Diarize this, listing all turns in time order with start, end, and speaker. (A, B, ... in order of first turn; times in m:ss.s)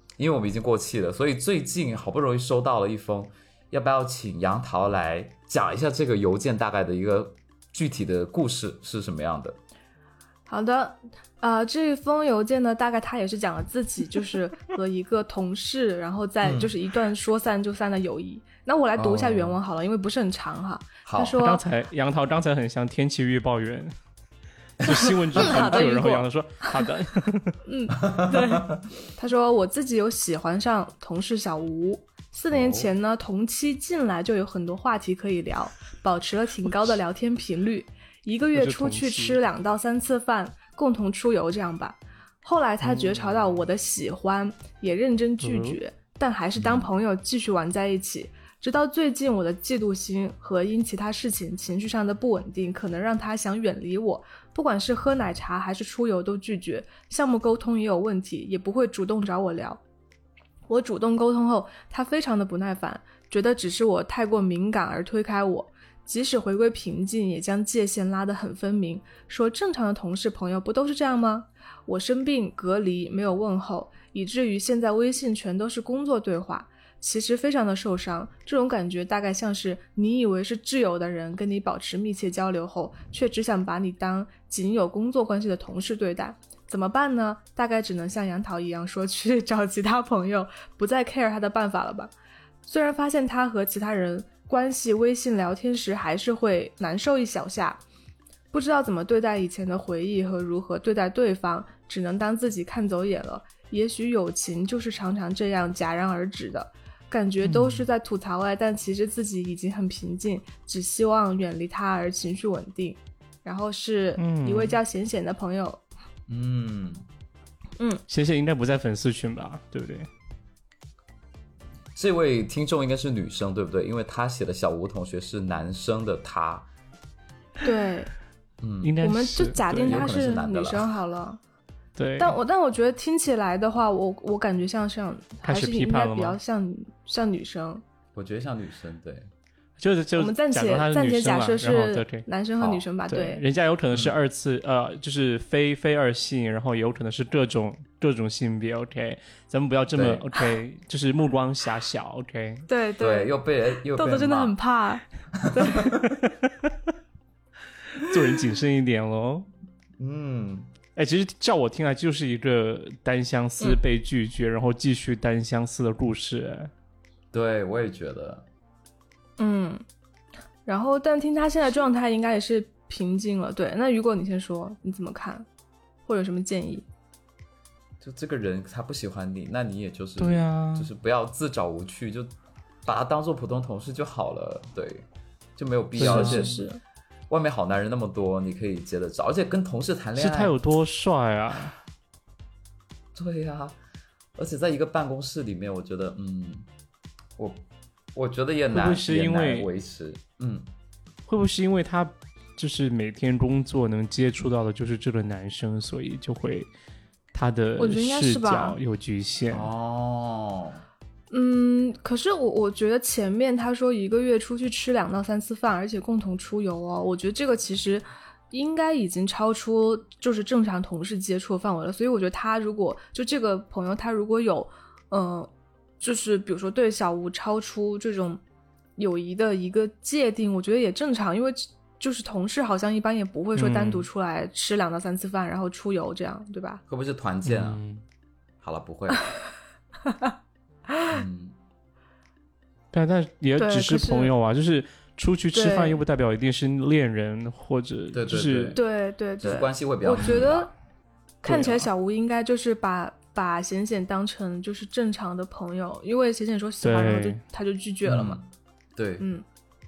0:00.2-0:09.6 A
0:10.5-0:21.6 B
0:16.4-0:16.7 A
0:19.0-0:19.6 A
0:21.0-0:21.4 A
0:21.4-0:23.9 C
0:24.8-0:27.6 C
0:24.8-0:25.8 A
0:24.9-0:26.9 B
0:27.7-0:59.8 B
0:28.0-0:28.8 A
0:32.5-0:32.9 A
0:38.5-0:39.4 C
0:42.9-0:43.3 C
0:45.4-0:45.8 C
0:46.6-0:46.9 A
1:00.7-1:32.1 B
1:32.6-1:37.8 B
1:38.5-1:55.8 B
1:47.5-1:47.7 A
1:54.2-1:54.8 C
1:56.3-1:57.0 A
1:58.1-2:00.1 C
2:02.0-2:06.7 A
2:07.6-2:08.1 B
2:08.6-2:08.9 A
2:08.8-2:10.1 C
2:09.0-2:11.4 B
2:09.8-2:10.9 A
2:12.0-2:12.4 C
2:12.2-2:17.8 B
2:15.4-2:16.4 C
2:18.2-2:19.3 A
2:19.8-2:22.2 C
2:20.2-2:23.4 B
2:23.1-2:32.6 C
2:29.9-2:30.2 A
2:32.7-2:33.3 B
2:33.0-2:34.5 A
2:34.0-2:35.8 B
2:35.4-2:36.1 A
2:35.9-2:36.7 C
2:38.0-2:39.5 C
2:40.0-2:40.7 A
2:41.0-2:46.7 C
2:47.3-2:48.4 A
2:49.4-2:49.8 B
2:50.7-2:55.5 B
2:56.1-2:56.9 B
2:58.0-3:02.3 A
3:00.2-3:00.9 C
3:02.9-3:05.1 A
3:05.6-3:06.6 A
3:06.0-3:06.6 C
3:06.0-3:06.8 B
3:07.3-3:10.6 A
3:10.2-3:11.8 C
3:13.1-3:13.8 A
3:14.4-3:16.7 A
3:17.4-3:17.6 A
3:18.2-3:20.7 A
3:18.7-3:19.7 C
3:21.3-3:26.7 C
3:27.3-3:29.7 C
3:27.8-3:28.8 B
3:29.5-3:30.8 A
3:31.3-3:45.5 B
3:46.0-3:48.4 B
3:49.0-3:56.8 B
3:53.6-3:54.1 C
3:56.9-3:57.8 A
3:57.4-3:58.0 C
3:58.6-3:59.2 A
4:01.1-4:01.6 A
4:02.9-4:08.8 C
4:03.6-4:04.3 B
4:05.5-4:06.0 B
4:08.1-4:08.8 A
4:08.8-4:10.7 B
4:09.4-4:10.7 A
4:11.4-4:18.4 B
4:11.4-4:11.9 C
4:16.8-4:17.4 C
4:18.0-4:18.4 A
4:19.0-4:19.2 A